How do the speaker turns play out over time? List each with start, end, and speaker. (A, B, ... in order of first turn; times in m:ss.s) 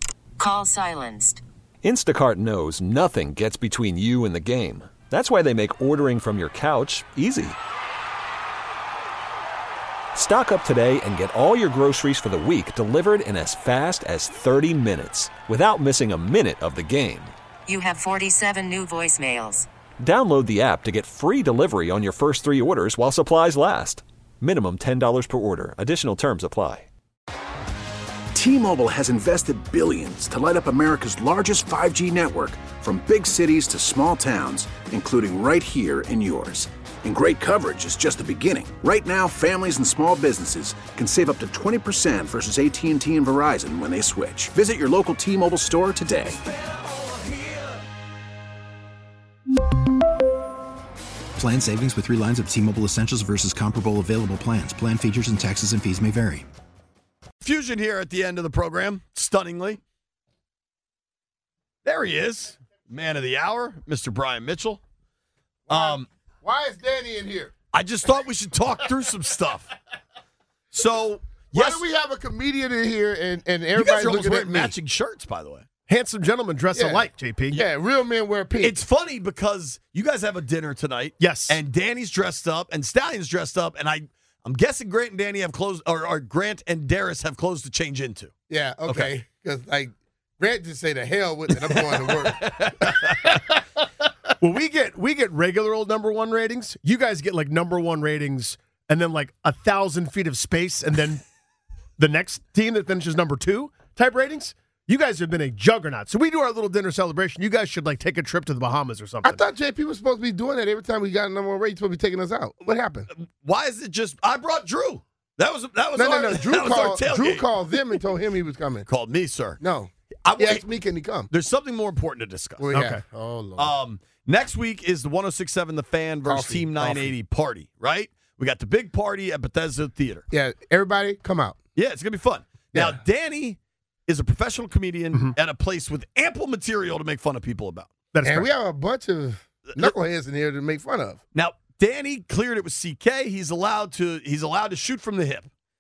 0:00.4-0:01.4 A
0:01.8-0:07.6 B
0:10.1-0:17.3 B
0:17.7-0:19.7 A
0:20.0-0:26.9 B
0:28.3-0:46.4 C
0:51.4-0:56.4 D
0:57.4-0:59.8 E
1:01.8-1:04.8 E
1:05.7-1:07.5 F
1:05.7-1:06.1 E
1:07.7-1:09.7 E
1:10.7-1:11.8 E
1:11.5-1:14.7 F
1:13.7-1:15.7 E
1:15.9-1:17.6 G
1:16.7-1:18.8 F
1:18.6-1:28.3 E
1:21.2-1:21.6 G
1:28.5-1:33.4 F
1:28.8-1:29.2 E
1:31.7-1:33.3 E
1:34.4-1:41.2 G
1:42.0-1:49.4 G
1:49.2-1:53.1 F
1:53.1-1:57.5 E
1:56.0-1:58.8 F
1:58.8-1:59.6 E
1:59.6-2:01.3 F
2:00.2-2:00.6 E
2:01.3-2:02.7 E
2:02.6-2:03.7 F
2:02.7-2:03.0 G
2:03.6-2:10.2 E
2:06.3-2:07.1 F
2:10.3-2:11.6 F
2:11.8-2:17.9 E
2:12.7-2:13.0 F
2:18.1-2:18.5 G
2:18.2-2:21.2 F
2:21.3-2:25.5 E